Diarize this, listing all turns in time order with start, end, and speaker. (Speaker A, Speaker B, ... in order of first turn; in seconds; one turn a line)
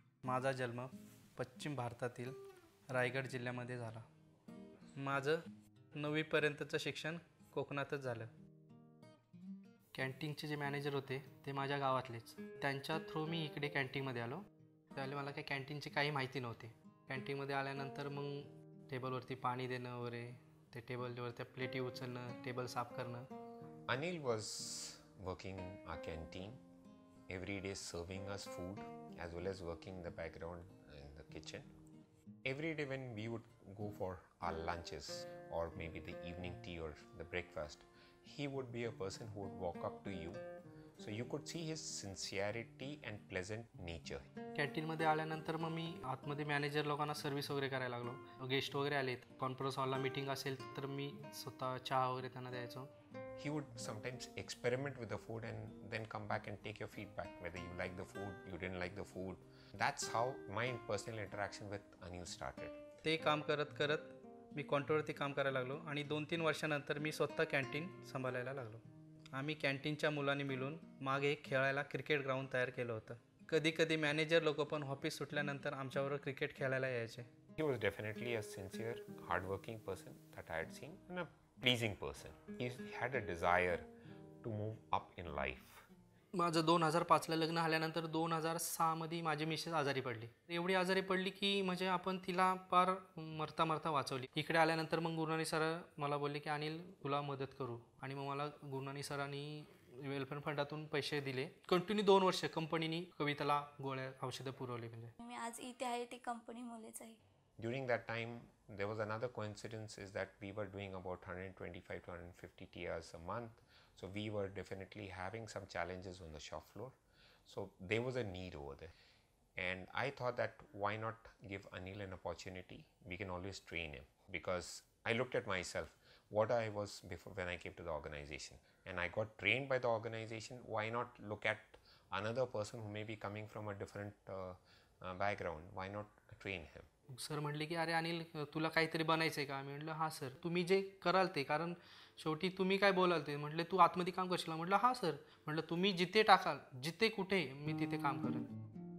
Speaker A: 0.2-2.4
Speaker A: 2.9-4.0
Speaker A: 5.0-5.4
Speaker A: 5.9-8.3
Speaker A: 9.9-14.4
Speaker A: 14.9-23.3
Speaker B: 23.9-26.6
Speaker B: 27.3-31.7
Speaker B: 32.4-40.4
Speaker B: 41.0-44.2
Speaker A: 44.5-52.9
Speaker B: 53.4-62.8
Speaker A: 63.0-68.8
Speaker A: 69.3-77.3
Speaker B: 77.6-83.8
Speaker B: 84.4-85.8
Speaker A: 86.3-105.1
Speaker C: 105.2-107.2
Speaker B: 107.6-118.9
Speaker B: 119.6-136.9
Speaker A: 137.1-148.5